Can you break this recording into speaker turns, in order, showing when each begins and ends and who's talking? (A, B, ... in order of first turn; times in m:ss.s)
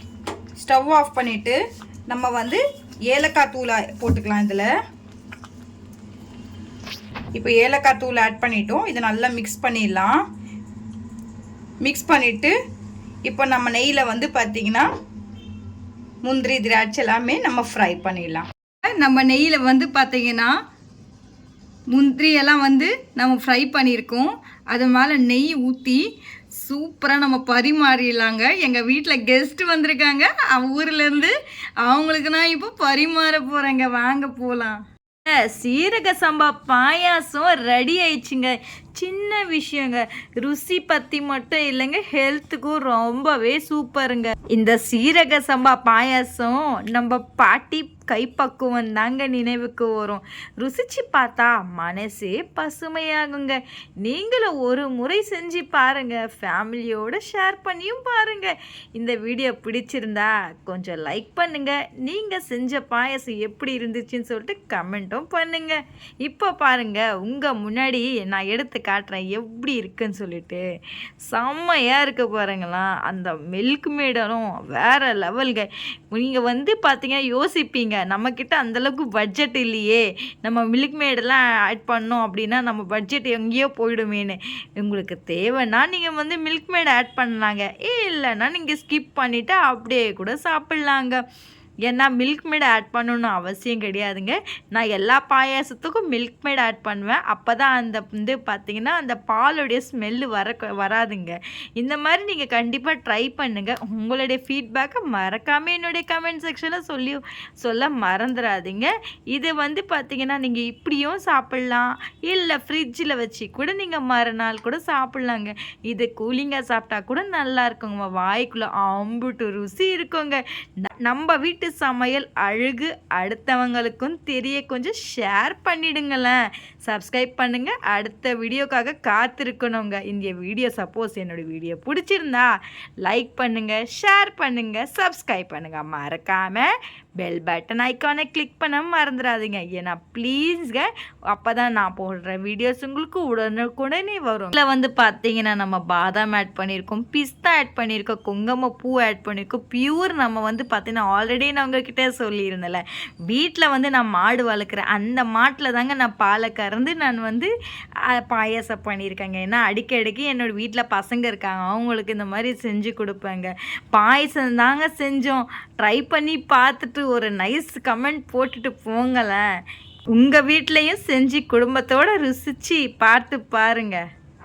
0:00.6-0:04.7 A
0:07.3-0:10.2 A
0:11.8-0:12.6 A
0:13.2-0:14.9 A
0:16.2-0:20.6 A
0:21.9-0:26.0 A
0:26.6-0:34.8 A
0:35.3-1:10.7 A
1:11.3-1:31.2 A
1:31.8-2:37.5 A
2:38.1-2:49.4 A
2:50.2-2:54.0 A